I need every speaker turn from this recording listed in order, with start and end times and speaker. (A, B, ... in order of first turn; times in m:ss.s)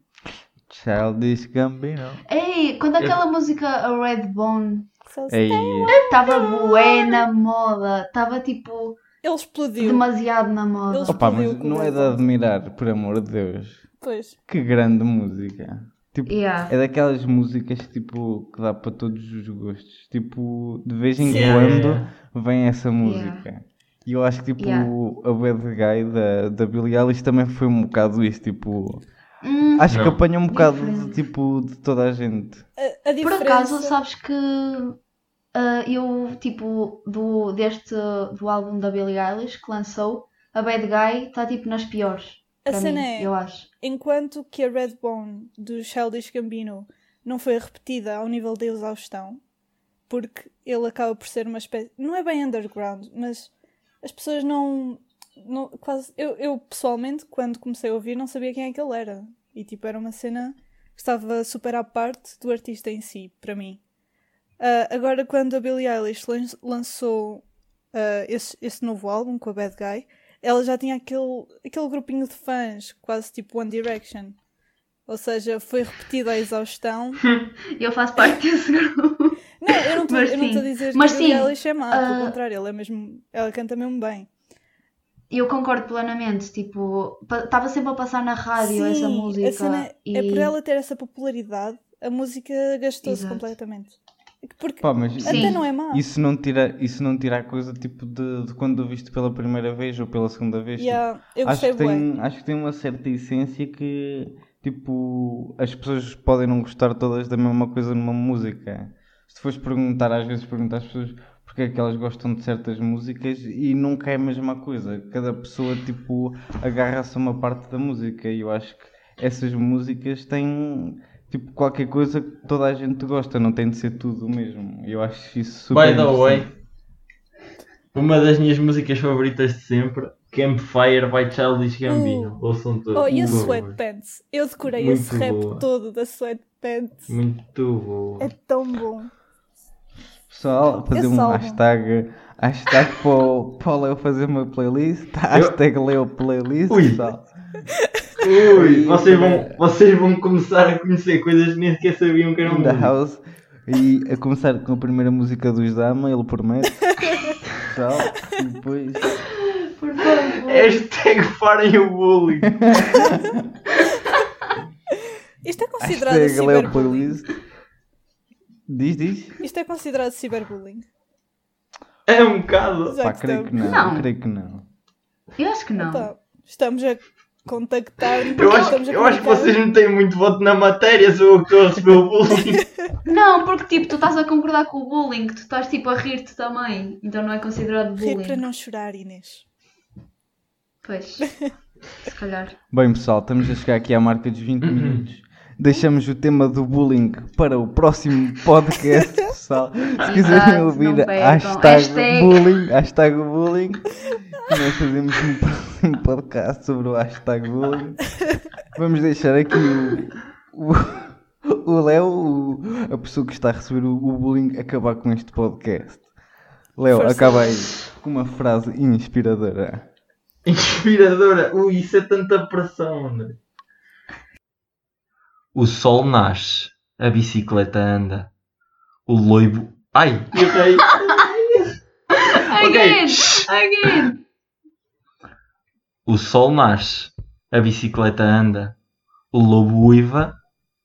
0:00.7-0:02.2 A
0:02.3-0:04.9 B
0:05.1-0:07.2 C
0:05.3-0:06.0 A
0:05.9-0:09.0 B
0:09.2-0:10.1 C
0:09.8-0:11.3 B
0:10.9-0:12.2 C
0:11.0-0:13.8 A
0:14.0-0:14.4 C
0:14.5-0:29.0 A
0:16.2-0:16.7 B
0:21.2-0:22.1 D
0:23.0-0:23.5 B
0:24.6-0:24.9 B
0:29.4-0:31.2 B
0:29.8-0:32.6 A
0:29.9-0:30.2 D
0:32.8-0:34.0 C
0:33.2-0:35.0 B
0:35.5-0:43.7 B
0:42.6-0:49.4 C
0:50.1-0:53.5 C
0:54.0-1:03.8 C
1:04.6-1:14.4 C
1:15.1-1:17.2 C
1:17.7-1:22.4 B
1:19.6-1:24.3 C
1:25.3-1:30.5 B
1:28.6-1:36.0 C
1:33.0-1:33.5 B
1:34.8-2:06.5 A
1:35.2-1:35.6 B
1:40.8-1:42.0 C
2:05.7-2:06.5 D
2:07.9-2:13.8 D
2:11.8-2:12.4 C
2:12.9-2:17.2 C
2:13.1-2:13.5 A
2:14.7-2:15.6 D
2:17.1-2:18.3 D
2:18.2-2:19.1 C
2:20.3-2:27.3 A
2:20.9-2:21.6 C
2:25.3-2:25.6 D
2:26.7-2:27.0 D
2:28.2-2:32.9 D
2:28.5-2:29.6 A
2:32.4-2:36.9 A
2:37.6-2:39.2 A
2:39.3-2:40.8 B
2:40.4-2:43.0 D
2:42.6-2:43.4 A
2:45.4-2:47.2 C
2:45.8-2:47.3 A
2:48.7-2:49.4 A
2:49.4-2:50.8 C
2:52.0-2:53.0 D
2:52.9-2:53.5 C
2:53.0-2:54.6 A
2:53.6-2:54.1 B
2:55.4-2:56.1 B
2:55.8-2:59.5 C
2:58.3-3:02.6 D
2:58.4-2:58.7 B
3:02.6-3:02.8 C
3:03.0-3:08.4 B
3:08.0-3:09.4 C
3:10.8-3:11.5 B
3:12.0-3:12.6 B
3:12.7-3:28.1 A
3:14.6-3:15.0 D
3:20.0-3:22.5 B
3:28.7-3:36.0 A
3:36.8-3:39.9 A
3:36.9-3:37.6 C
3:40.4-3:43.4 D
3:45.5-3:48.3 D
3:49.1-3:51.7 D
3:52.2-3:54.2 B
3:52.4-3:54.0 D
3:56.0-3:58.7 D
3:59.3-4:00.4 D